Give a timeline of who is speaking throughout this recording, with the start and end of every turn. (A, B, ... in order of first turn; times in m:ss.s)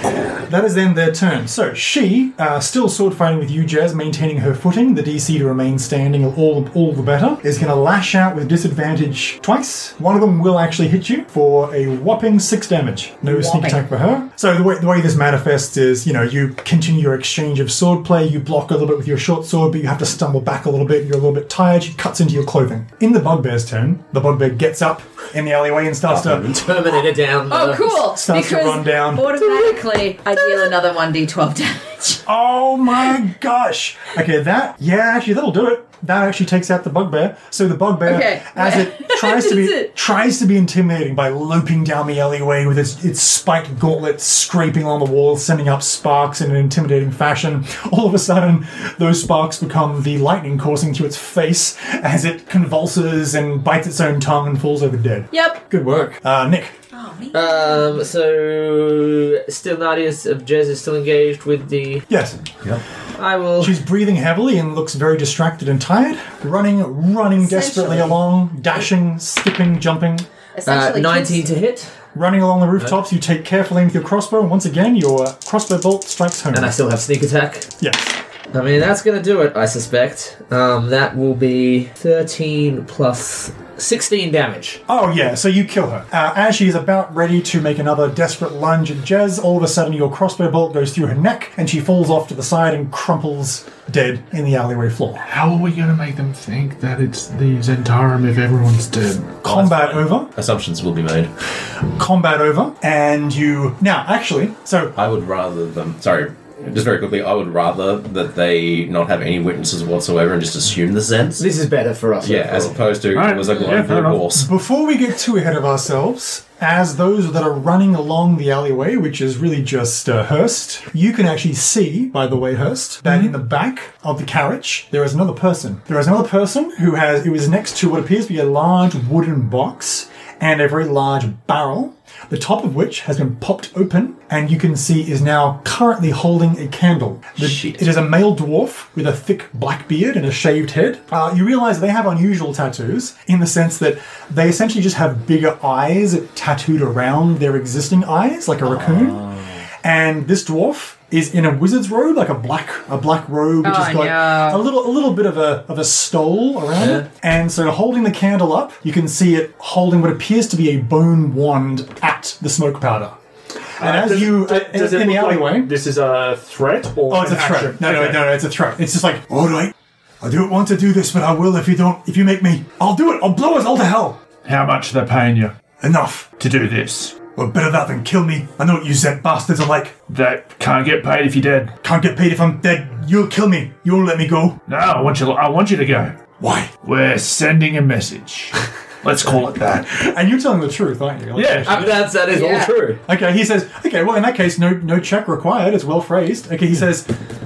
0:00.4-0:26.5 A
0:13.2-0:13.8 B
0:26.1-0:26.7 C
0:26.5-0:28.0 D
0:27.5-0:32.2 B
0:28.1-0:29.7 A
0:32.2-0:56.8 A
0:38.0-0:39.9 B
0:55.3-0:55.6 B
0:56.9-0:58.0 B
0:57.3-1:02.0 D
1:02.1-1:02.4 A
1:03.1-1:03.8 D
1:03.6-1:10.3 A
1:07.4-1:08.2 B
1:10.5-1:11.5 B
1:10.6-1:11.9 D
1:12.1-1:16.7 A
1:16.5-1:17.7 D
1:17.8-1:18.2 A
1:18.5-1:24.8 D
1:24.9-1:35.3 A
1:35.2-1:40.0 E
1:39.4-1:40.3 A
1:40.3-1:41.3 C
1:42.0-1:44.9 A
1:45.0-1:51.4 C
1:51.4-1:52.8 D
1:52.2-1:54.5 C
1:53.1-1:54.3 E
1:54.3-2:29.2 A
2:03.1-2:03.3 E
2:17.4-2:17.9 C
2:28.8-2:29.1 D
2:29.8-2:43.2 A
2:33.6-2:34.6 B
2:36.8-2:37.0 D
2:43.8-2:45.7 A
2:43.8-2:48.3 E
2:47.1-2:54.2 A
2:54.4-2:55.5 E
2:55.8-2:56.4 A
2:56.4-2:57.2 E
2:57.3-3:00.0 A
3:00.1-3:01.7 E
3:01.8-3:04.6 A
3:04.7-3:06.2 E
3:06.4-3:06.7 A
3:06.8-3:09.9 E
3:09.4-3:12.0 A
3:11.3-3:12.1 E
3:11.6-3:13.0 D
3:12.3-3:12.7 B
3:13.1-3:17.1 A